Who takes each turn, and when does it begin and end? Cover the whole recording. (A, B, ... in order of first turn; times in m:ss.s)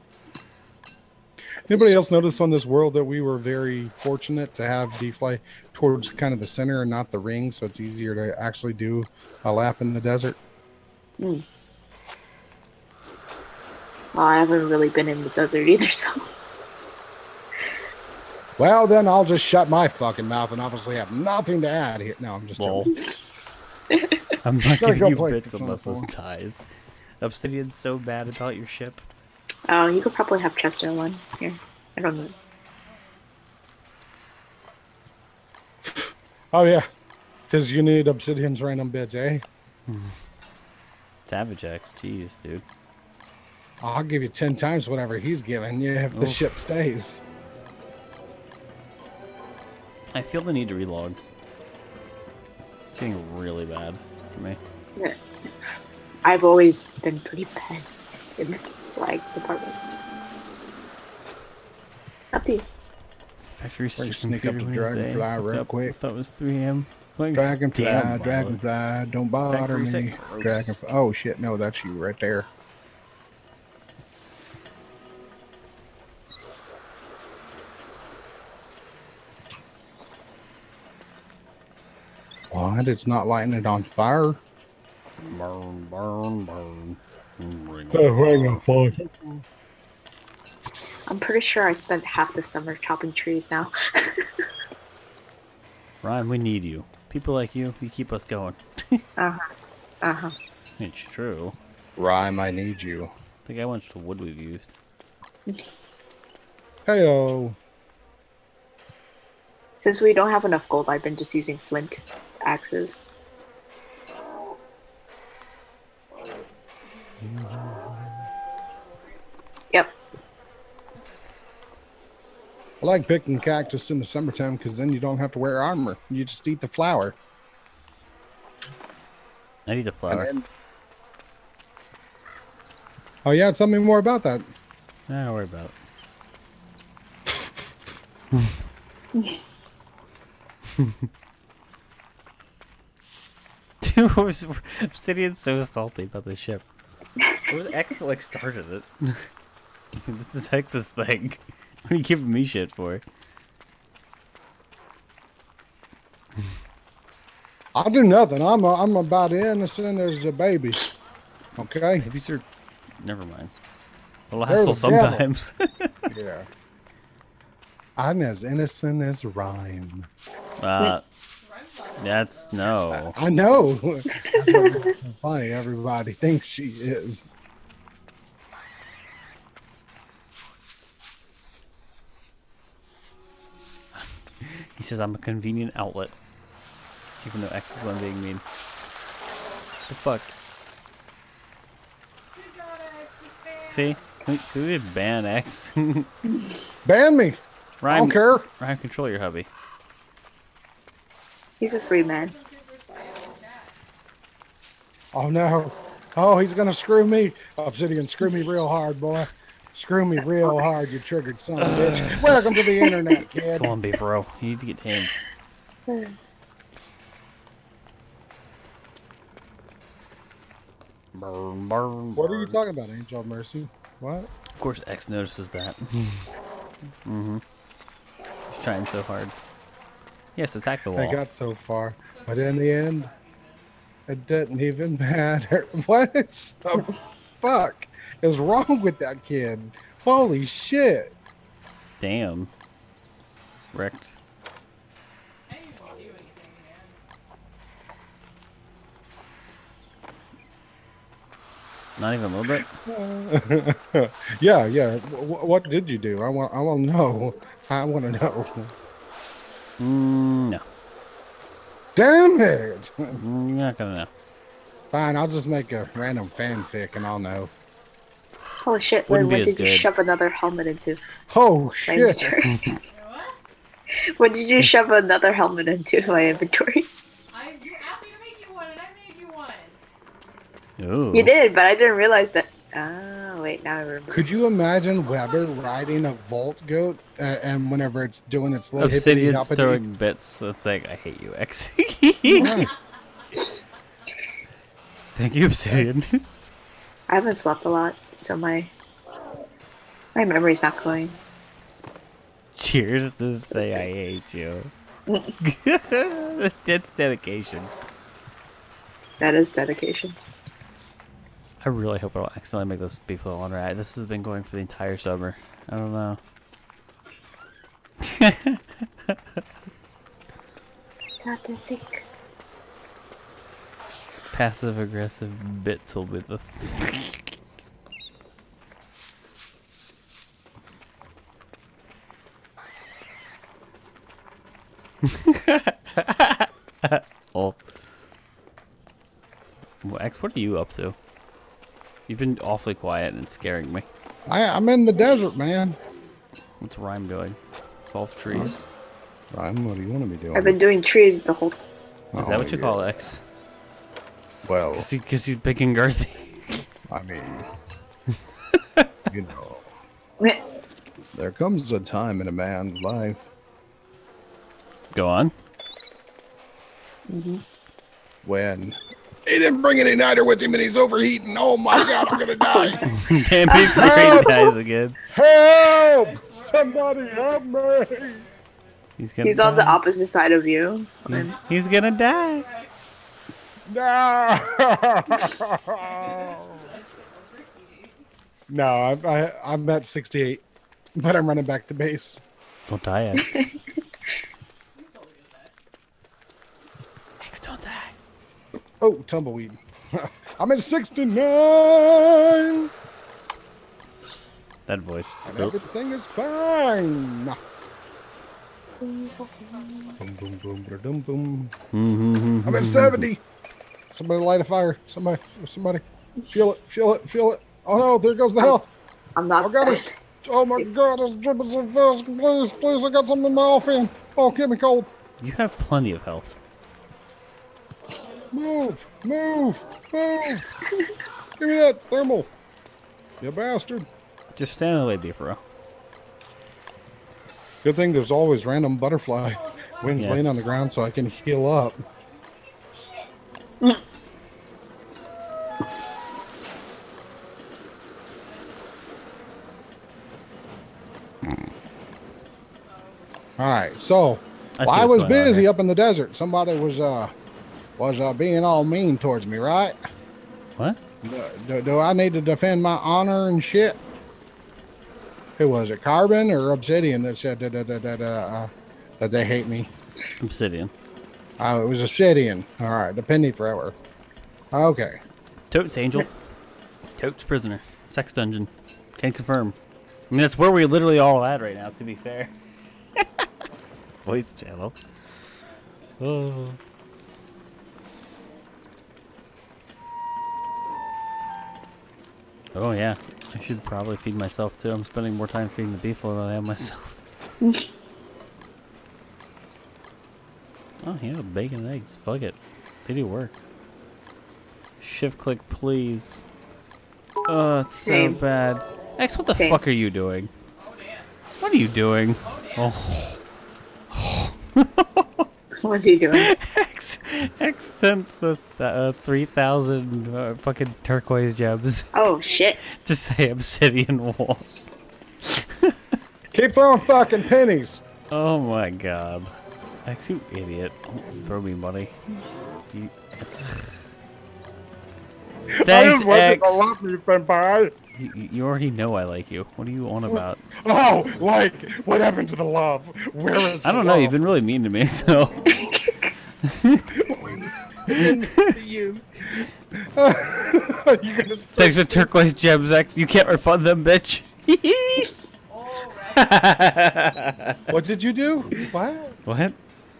0:01.6-0:10.4 A
0:11.2-0:11.4 B
0:14.1-0:16.3 B
0:18.6-0:22.9 A
0:22.6-0:22.9 C
0:23.9-0:24.2 B
0:24.4-0:26.6 C
0:24.8-0:26.1 A
0:27.2-0:29.0 C
0:29.7-0:32.3 B
0:32.1-0:33.3 D
0:35.8-0:36.9 A
0:37.5-0:39.4 A
0:39.9-0:40.2 C
0:41.2-0:42.6 C
0:43.8-0:47.2 A
0:46.1-0:46.5 C
0:50.1-0:51.2 C
0:52.9-0:54.6 C
0:56.2-0:59.8 B
1:02.3-1:02.6 B
1:03.5-1:08.6 C
1:04.0-1:05.9 A
1:07.3-1:12.5 A
1:09.5-1:10.7 C
1:22.5-1:24.4 A
1:25.2-1:28.6 C
1:27.9-1:29.4 A
1:31.1-1:34.3 B
1:36.0-1:39.0 C
1:39.2-1:39.4 B
1:40.0-1:40.3 B
1:40.8-1:41.5 C
1:42.0-1:43.1 A
1:43.4-1:44.7 C
1:46.9-1:47.6 A
1:49.8-1:53.0 B
1:56.8-1:59.2 D
2:02.8-2:07.2 A
2:09.7-2:10.3 C
2:10.1-2:10.4 A
2:13.2-2:14.4 A
2:15.1-2:15.7 C
2:23.8-2:26.6 C
2:27.5-2:29.3 C
2:29.9-2:33.0 C
2:37.7-2:40.9 A
2:41.6-2:42.0 A
2:42.0-2:42.4 C
2:43.0-2:43.5 C
2:44.3-2:46.1 C
2:44.5-2:45.2 A
2:46.1-2:46.5 A
2:48.0-2:50.1 A
2:50.6-2:51.0 C
2:51.4-2:52.8 D
2:52.0-2:53.2 C
2:52.9-2:57.2 A
2:54.1-2:55.0 B
3:03.9-3:06.1 C
3:07.2-3:08.4 C
3:09.9-3:10.3 C
3:12.3-3:14.1 D
3:13.6-3:16.1 C
3:16.8-3:18.5 A
3:17.8-3:19.5 C
3:21.6-3:22.3 B
3:21.6-3:23.8 D
3:25.1-3:33.7 A
3:31.6-3:32.5 C
3:33.4-3:35.1 C
3:35.9-3:36.1 B
3:41.1-3:42.6 C
3:42.2-3:44.3 A
3:44.6-3:46.3 C
3:47.0-3:47.4 C
3:48.5-3:49.4 C
3:50.4-3:51.2 C
3:50.9-3:53.1 A
3:52.1-3:53.7 D
3:54.1-3:56.9 A
3:57.4-4:01.1 A
4:02.0-4:02.5 C
4:03.7-4:04.2 C
4:05.5-4:07.0 D
4:12.0-4:12.7 C
4:12.5-4:18.7 A
4:19.8-4:20.6 C
4:22.0-4:23.2 A
4:23.1-4:24.1 C
4:24.9-4:27.5 A
4:28.6-4:31.0 B
4:29.1-4:29.9 C
4:31.3-4:32.4 A
4:31.9-4:32.6 B
4:32.4-4:32.8 C
4:32.9-4:33.4 D
4:33.9-4:36.9 B
4:37.3-4:39.8 D
4:40.8-4:41.3 C
4:41.1-4:44.3 B
4:44.1-4:49.8 A
4:48.8-4:52.6 C
4:52.3-4:52.7 A
4:55.1-4:56.2 C
4:57.1-4:58.7 B
5:00.1-5:01.2 B
5:02.6-5:04.7 C
5:03.5-5:03.8 B
5:05.1-5:05.4 B
5:05.4-5:07.7 C
5:09.2-5:10.2 B
5:11.6-5:16.2 C
5:18.0-5:19.1 C
5:21.2-5:22.0 B
5:24.3-5:27.2 C
5:35.0-5:37.6 C
5:39.8-5:41.0 C
5:42.1-5:43.9 C
5:44.3-5:45.8 A
5:46.6-5:48.6 C
5:49.3-5:50.6 A
5:50.3-5:51.6 B
5:52.1-5:53.1 A
5:52.1-5:53.2 C
5:54.4-5:54.9 A
5:54.7-5:56.6 C
5:56.9-5:57.5 A
5:58.5-5:58.9 C
5:59.1-5:59.7 A
6:01.1-6:03.2 A
6:04.9-6:05.3 C
6:07.1-6:07.4 B
6:08.2-6:12.9 A
6:11.7-6:12.8 B
6:12.6-6:13.1 D
6:12.9-6:15.0 C
6:13.5-6:14.5 B
6:13.7-6:14.5 A
6:15.1-6:18.2 A
6:15.7-6:18.7 D
6:19.0-6:19.8 C
6:19.2-6:21.3 B
6:21.0-6:22.4 C
6:21.1-6:22.8 D
6:23.7-6:26.7 A
6:25.8-6:28.0 D
6:28.5-6:30.4 A
6:31.0-6:32.2 A
6:32.7-6:33.5 C
6:33.2-6:33.5 B
6:34.7-6:35.5 D
6:37.2-6:38.0 C
6:38.8-6:42.7 A
6:44.7-6:45.6 C
6:45.2-6:47.4 A
6:48.8-6:50.0 B
6:49.0-6:50.0 D
6:50.0-6:51.5 A
6:51.7-6:53.1 C
6:52.4-6:53.2 A
6:53.9-6:58.7 A
6:59.2-6:59.9 B
6:59.4-7:04.9 A
7:05.2-7:06.4 C
7:08.3-7:10.5 A
7:11.4-7:12.3 A
7:13.2-7:13.9 A
7:14.3-7:15.4 C
7:17.6-7:21.8 A
7:19.2-7:20.7 D
7:20.0-7:20.4 C
7:22.0-7:23.1 D
7:28.2-7:28.9 D
7:32.6-7:33.3 D
7:33.4-7:37.1 A
7:34.6-7:35.5 C
7:37.8-7:39.8 A
7:41.0-7:43.8 A
7:45.4-7:49.7 A
7:50.2-7:50.7 C
7:51.4-7:53.7 A
7:54.5-7:55.0 A
7:55.5-7:56.1 C
7:57.0-7:59.6 C
8:00.1-8:02.3 C
8:03.0-8:03.2 C
8:04.0-8:04.8 C
8:06.0-8:06.6 C
8:12.5-8:17.0 C
8:20.8-8:23.4 C
8:24.8-8:26.2 C
8:27.3-8:30.3 C
8:27.8-8:28.2 B
8:29.3-8:29.6 B
8:30.6-8:31.2 D
8:31.4-8:33.2 C
8:32.2-8:32.9 D
8:33.9-8:35.3 C
8:35.6-8:36.3 B
8:36.1-8:44.5 C
8:41.9-8:42.6 B
8:45.2-8:45.8 C
8:46.3-8:47.8 A
8:48.1-8:49.3 C
8:49.8-8:51.9 C
8:52.7-8:53.7 C
8:55.6-8:57.7 A
8:55.6-8:56.7 C
8:57.9-9:00.4 C
9:00.6-9:04.2 A
9:03.6-9:05.4 C
9:05.5-9:06.1 B
9:06.4-9:06.9 C
9:06.9-9:09.1 A
9:07.9-9:08.5 C
9:09.9-9:12.1 A
9:11.6-9:15.1 C
9:15.5-9:16.8 D
9:16.2-9:17.6 C
9:17.7-9:19.2 A
9:19.2-9:19.6 C